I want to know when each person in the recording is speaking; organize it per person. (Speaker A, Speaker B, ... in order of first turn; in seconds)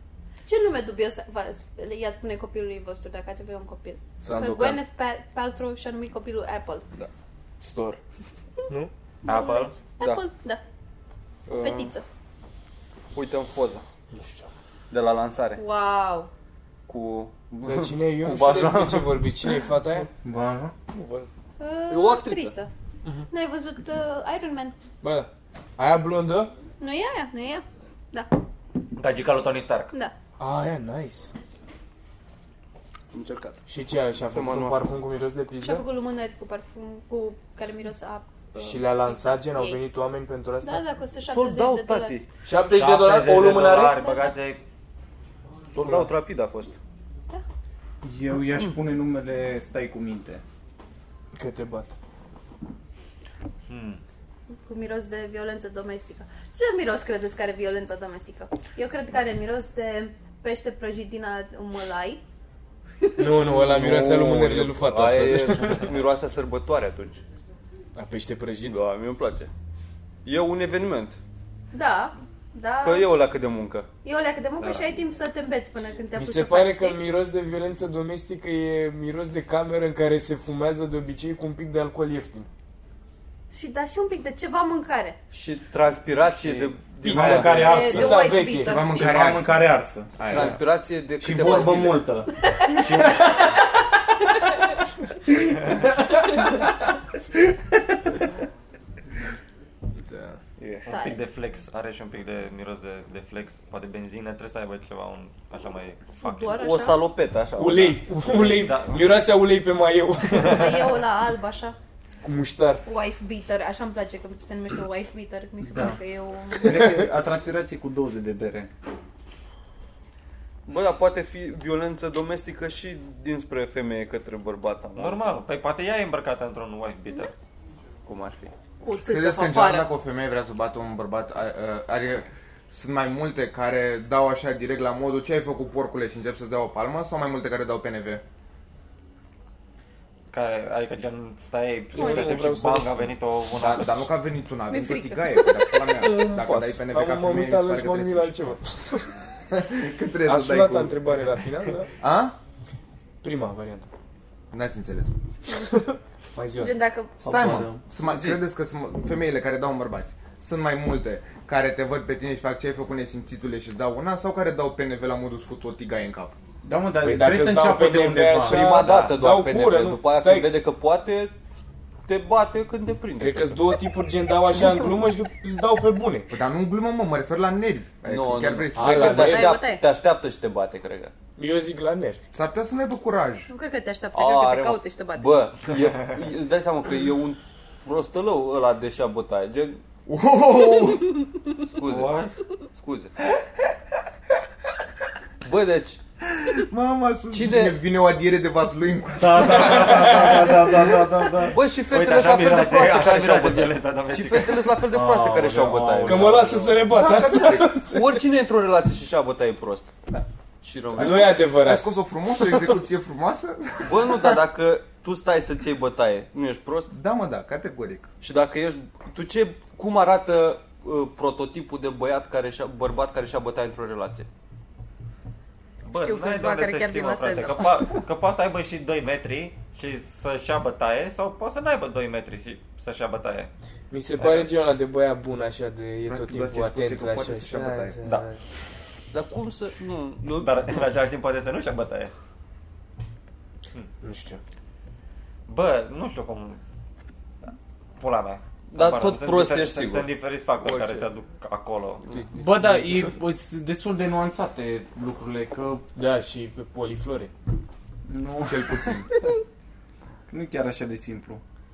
Speaker A: 0.5-6.8, 9.2-10.6, 11.5-12.0, 15.5-16.3, 21.6-22.7, 23.3-24.7, 26.8-28.3, 35.6-38.5, 39.0-39.8, 40.6-42.2, 43.9-44.4, 54.6-62.2, 71.7-73.2, 74.0-77.1, 83.5-85.2, 87.5-89.3, 92.4-93.5, 100.9-101.2, 106.2-107.0, 110.4-111.8, 112.8-117.0, 128.8-129.9, 141.9-142.5, 144.7-145.9, 156.5-157.2, 178.9-179.8, 183.5-185.4, 225.9-227.9
Speaker B: 4.2-4.8, 7.6-8.0, 11.5-11.9, 13.1-13.8, 14.9-15.6, 16.9-19.6, 20.9-21.3, 21.9-22.6, 33.1-33.6, 34.3-34.8, 38.5-38.8, 41.3-42.3, 45.7-46.8, 63.4-67.2, 68.6-69.5, 70.2-71.2, 72.8-73.9, 74.6-75.0, 85.3-88.1, 90.3-92.1, 100.6-100.9, 106.5-108.0, 120.7-125.3, 128.1-128.5, 158.0-158.4, 168.4-171.4, 172.1-173.7, 178.1-181.1, 184.1-189.8, 191.7-192.2, 192.7-193.1, 195.4-196.0, 197.3-197.8, 201.5-206.7, 207.9-209.9, 210.6-211.4, 213.9-216.9, 218.2-224.3, 239.1-241.0, 248.7-251.1
Speaker C: 9.2-9.8, 29.0-29.9, 42.6-44.6, 53.7-54.0, 100.9-106.6, 107.9-109.4, 110.3-110.7, 125.0-127.3, 140.3-144.1, 168.7-169.2, 191.8-192.3, 199.2-206.4, 225.8-233.5, 234.2-234.5, 240.4-242.1, 245.5-246.6, 248.0-252.1
Speaker D: 14.1-14.5, 17.6-20.1, 25.0-26.5, 30.4-31.3, 33.7-35.9, 38.6-40.8, 42.4-44.0, 45.7-46.1, 51.3-51.9, 63.2-65.9, 68.0-68.8, 76.2-82.5, 87.1-88.8, 100.1-100.4, 107.5-110.8, 112.2-112.8, 141.9-143.1, 146.0-149.1, 150.2-151.9, 153.2-153.9, 155.6-156.8, 167.0-170.6, 173.2-176.3, 178.7-179.5, 181.4-182.2, 199.6-200.5, 206.0-208.2, 210.9-211.9, 233.9-238.4, 244.0-244.4, 252.1-253.0, 255.9-257.3
Speaker E: 20.2-20.7, 48.0-50.4, 87.0-88.2, 88.8-90.1, 91.2-93.5, 115.7-116.0, 116.5-118.7, 157.2-157.8, 166.6-168.7, 205.4-206.4, 252.3-255.8, 258.1-258.8, 260.3-261.4
Speaker F: 87.0-87.8, 88.5-90.6, 128.9-138.2, 143.6-148.4, 149.5-151.0, 152.0-152.4, 154.5-155.1, 157.2-166.4, 176.3-179.5, 182.3-183.5, 190.1-191.3, 196.3-201.5, 206.9-207.8, 211.0-214.4, 216.9-218.1, 236.1-238.0, 258.4-259.1